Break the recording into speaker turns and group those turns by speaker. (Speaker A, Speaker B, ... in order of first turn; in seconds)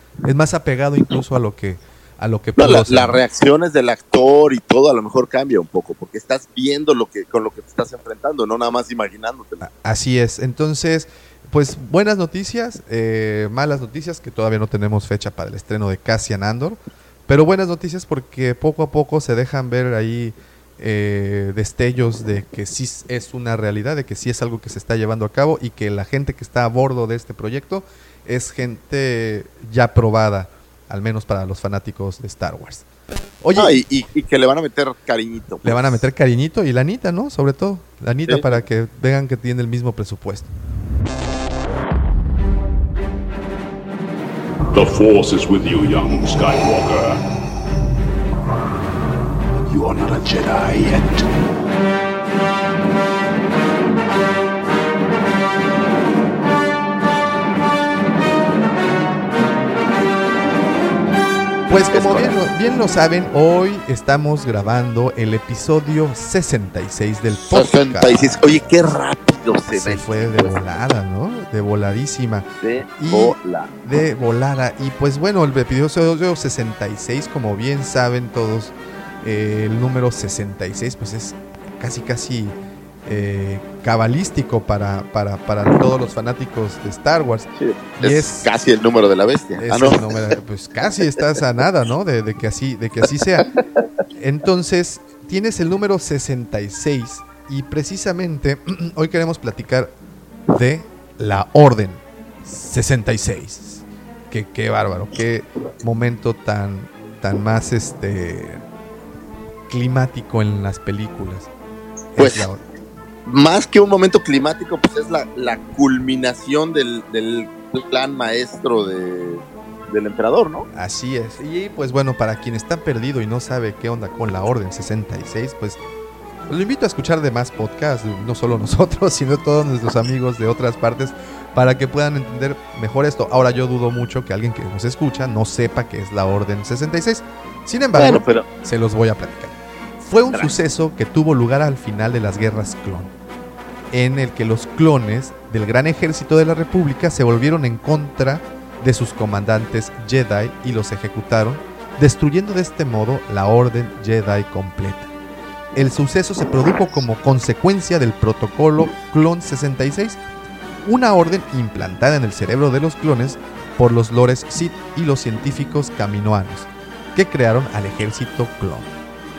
Speaker A: 0.2-3.2, 9.6-32.9, 33.4-33.8, 35.6-40.5, 61.7-68.5, 69.7-72.5, 73.0-87.5, 88.0-88.5, 89.6-93.5, 94.2-99.9, 100.5-108.6, 109.7-111.5, 112.2-112.6, 120.7-125.8, 126.5-143.1, 143.9-155.1, 155.8-160.2, 160.8-168.9
Speaker B: 2.6-9.7, 33.5-36.0, 38.3-38.6, 61.9-62.4, 67.3-70.6, 72.6-73.7, 87.6-90.0, 112.2-112.5, 113.3-120.7, 137.9-138.5
Speaker C: 44.7-47.2, 49.7-51.3